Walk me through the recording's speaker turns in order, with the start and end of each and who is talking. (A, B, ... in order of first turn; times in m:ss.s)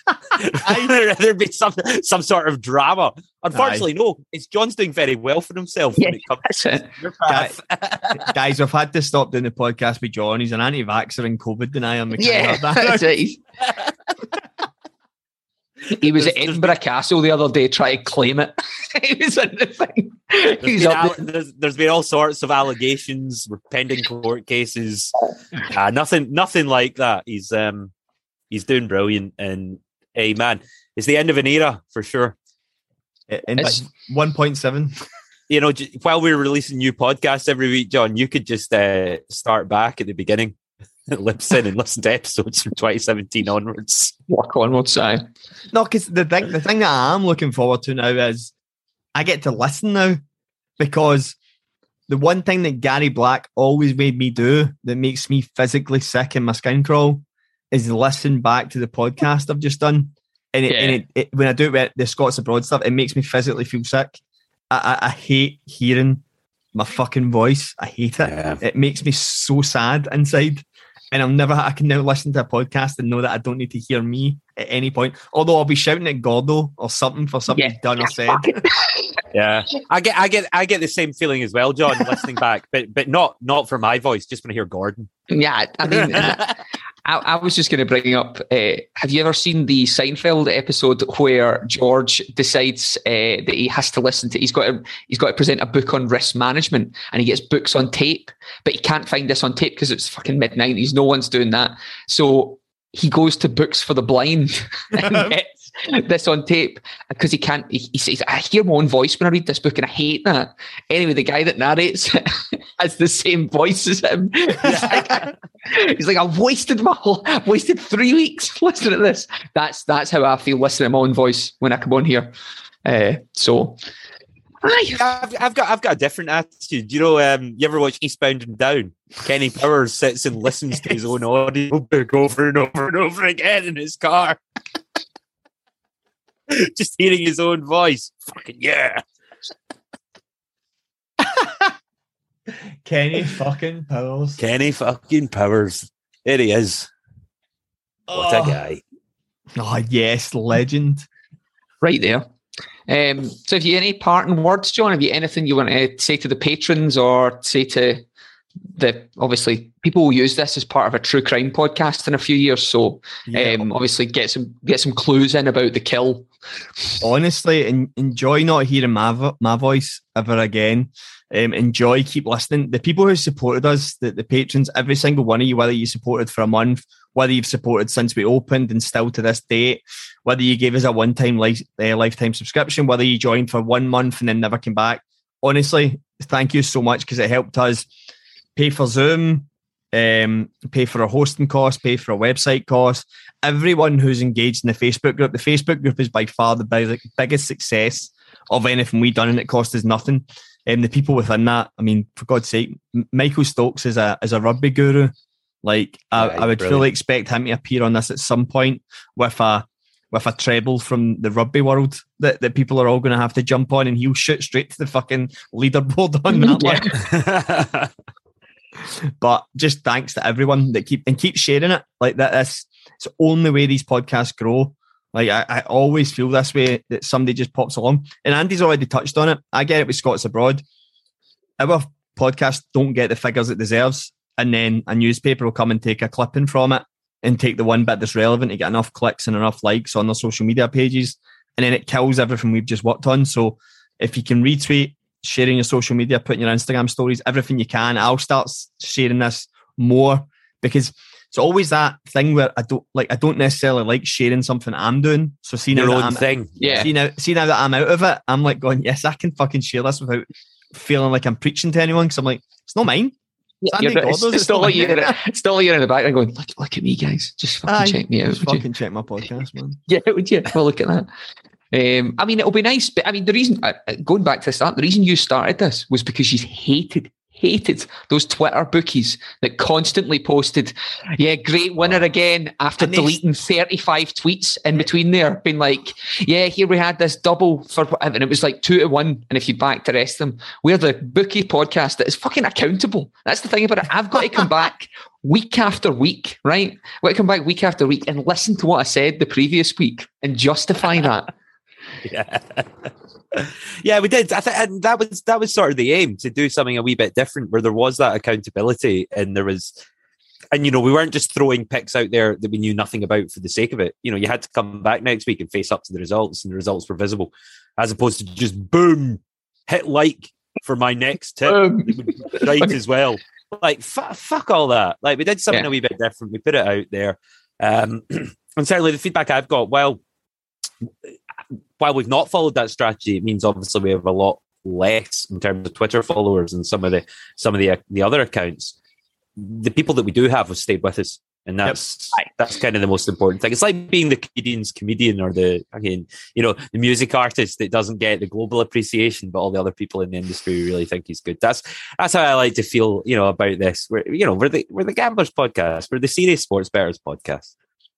0:00.3-0:08.3 A
0:00.6-0:00.9 B
0:03.5-0:03.8 B
0:06.0-0:06.9 C
0:07.3-0:07.5 B
0:08.2-0:13.0 B
0:12.2-0:13.4 C
0:16.0-0:21.2 C
0:16.1-0:16.8 A
0:20.6-0:27.9 A
0:28.5-0:32.3 A
0:33.3-0:34.9 B
0:35.5-0:40.6 A
0:41.1-0:44.1 A
0:44.3-0:45.2 C
0:45.7-0:48.5 B
0:49.1-0:50.2 B
0:50.8-0:51.4 B
0:52.1-1:06.2 B
1:00.7-1:01.0 C
1:06.7-1:18.6 B
1:08.2-1:08.6 A
1:17.5-1:19.1 C
1:19.3-1:25.1 A
1:25.3-1:26.5 C
1:26.0-1:26.5 A
1:27.0-2:02.3 C
1:45.0-1:45.3 B
1:54.6-1:55.0 A
2:02.8-2:03.8 C
2:04.6-2:05.0 C
2:04.9-2:14.4 A
2:16.5-2:19.0 A
2:21.2-2:21.7 B
2:22.8-2:24.4 B
2:24.4-2:26.9 A
2:28.1-2:28.6 B
2:28.1-2:28.8 A
2:29.6-2:31.1 B
2:31.8-2:32.2 C
2:32.9-2:38.0 C
2:38.7-2:46.3 C
2:43.3-2:43.7 B
2:47.0-3:07.9 B
3:08.6-3:37.0 B
3:26.2-3:26.9 A
3:36.3-3:36.9 C
3:37.0-3:37.9 A
3:39.2-3:50.6 B
3:51.6-4:23.1 B
4:15.7-4:16.9 A
4:16.6-4:16.9 C
4:23.6-4:28.6 C
4:23.7-4:25.2 B
4:27.6-4:29.8 B
4:29.9-4:31.1 C
4:31.7-5:01.3 C
5:02.0-5:09.8 A
5:10.5-5:30.0 A
5:21.5-5:22.7 C
5:31.8-5:38.7 A
5:39.4-5:57.5 A